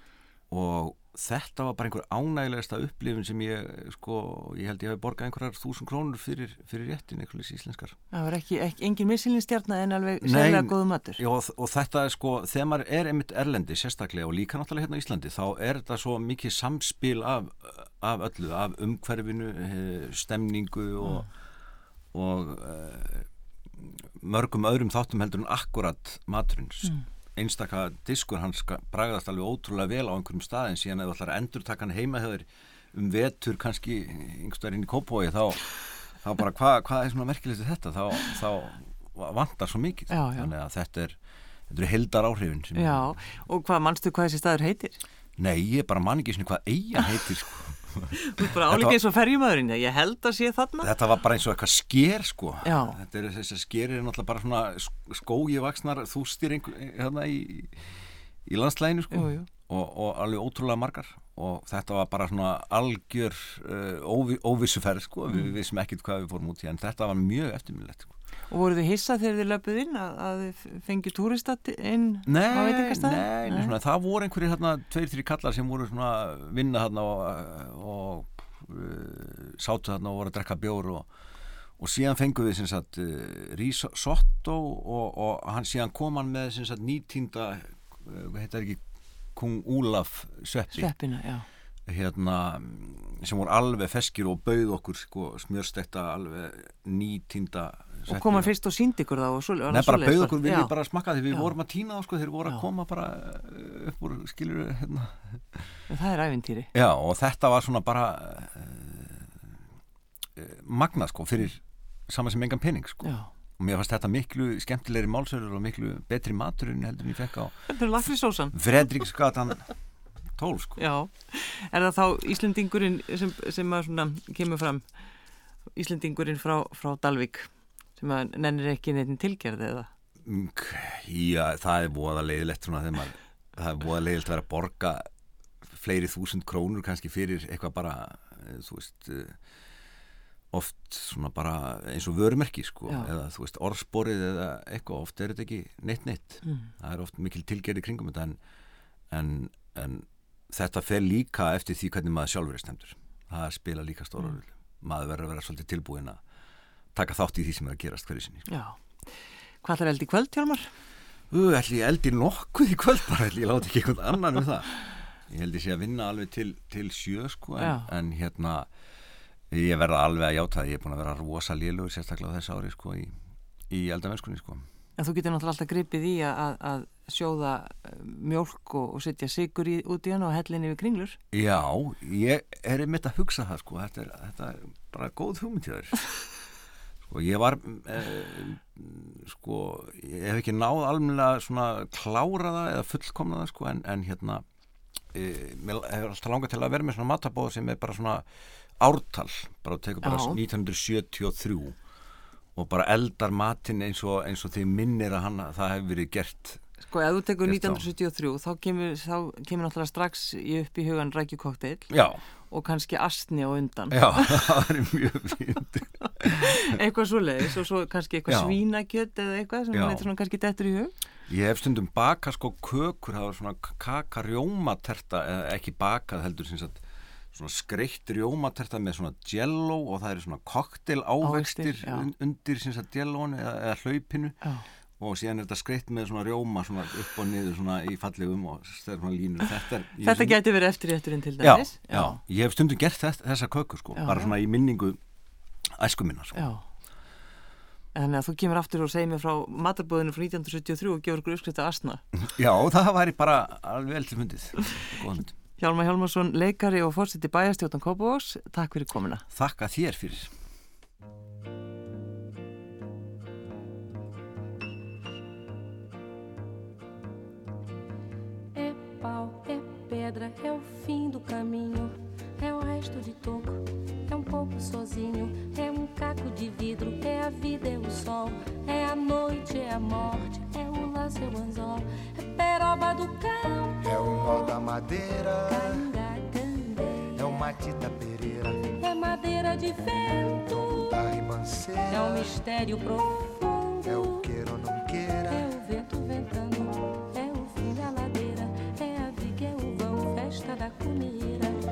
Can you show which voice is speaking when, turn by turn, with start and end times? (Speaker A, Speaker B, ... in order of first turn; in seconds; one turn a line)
Speaker A: 0.5-8.0
Speaker B: 8.1-11.2
Speaker A: 10.2-21.3
Speaker A: 22.1-41.2
Speaker B: 40.1-40.5
Speaker A: 41.7-43.1
Speaker B: 42.7-45.0
Speaker A: 45.4-49.0
Speaker B: 48.2-50.9
Speaker A: 50.8-68.1
Speaker B: 52.6-53.0
Speaker B: 59.1-59.5
Speaker B: 68.5-73.7
Speaker A: 72.2-81.1
Speaker A: 81.8-88.8
Speaker A: 89.3-90.9
Speaker B: 90.7-91.5
Speaker A: 91.9-98.5
Speaker B: 98.1-100.7
Speaker A: 99.7-105.8
Speaker B: 105.9-106.7
Speaker A: 106.7-109.5
Speaker A: 110.3-117.8
Speaker B: 113.0-113.3
Speaker B: 117.7-118.5
Speaker A: 118.5-119.7
Speaker A: 120.4-120.8
Speaker B: 120.8-124.8
Speaker B: 125.8-129.9
Speaker A: 130.2-135.1
Speaker A: 135.7-139.4
Speaker A: 140.5-148.4
Speaker B: 146.4-146.7
Speaker A: 149.1-156.2
Speaker A: 156.9-158.5
Speaker B: 158.5-160.7
Speaker A: 161.3-168.7
Speaker B: 167.6-167.9
Speaker A: 169.5-173.2
Speaker A: 173.7-174.6
Speaker B: 175.0-181.2
Speaker A: 181.3-186.0
Speaker A: 187.1-194.4
Speaker A: 195.1-198.2
Speaker A: 198.8-201.8
Speaker B: 200.0-200.4
Speaker A: 202.6-206.6
Speaker B: 206.8-211.9
Speaker A: 207.4-207.9
Speaker A: 211.9-212.2
Speaker B: 212.5-214.4
Speaker A: 213.9-216.7
Speaker B: 216.2-220.9
Speaker A: 218.3-218.6
Speaker A: 219.7-220.1
Speaker A: 221.3-234.4
Speaker B: 231.2-232.1
Speaker A: 235.0-240.4
Speaker B: 240.0-242.2
Speaker A: 241.4-245.0
Speaker B: 243.9-244.3
Speaker A: 245.7-246.5
Speaker B: 246.3-246.6
Speaker B: 247.9-252.0
Speaker A: 252.2-255.3
Speaker B: 255.6-259.2
Speaker A: 259.3-260.4
Speaker C: 268.5-283.8
Speaker D: 283.8-285.9
Speaker C: 285.5-287.1
Speaker D: 287.1-288.7
Speaker C: 288.8-290.5
Speaker D: 290.4-292.4
Speaker C: 291.9-294.2
Speaker D: 293.8-295.5
Speaker C: 295.3-301.6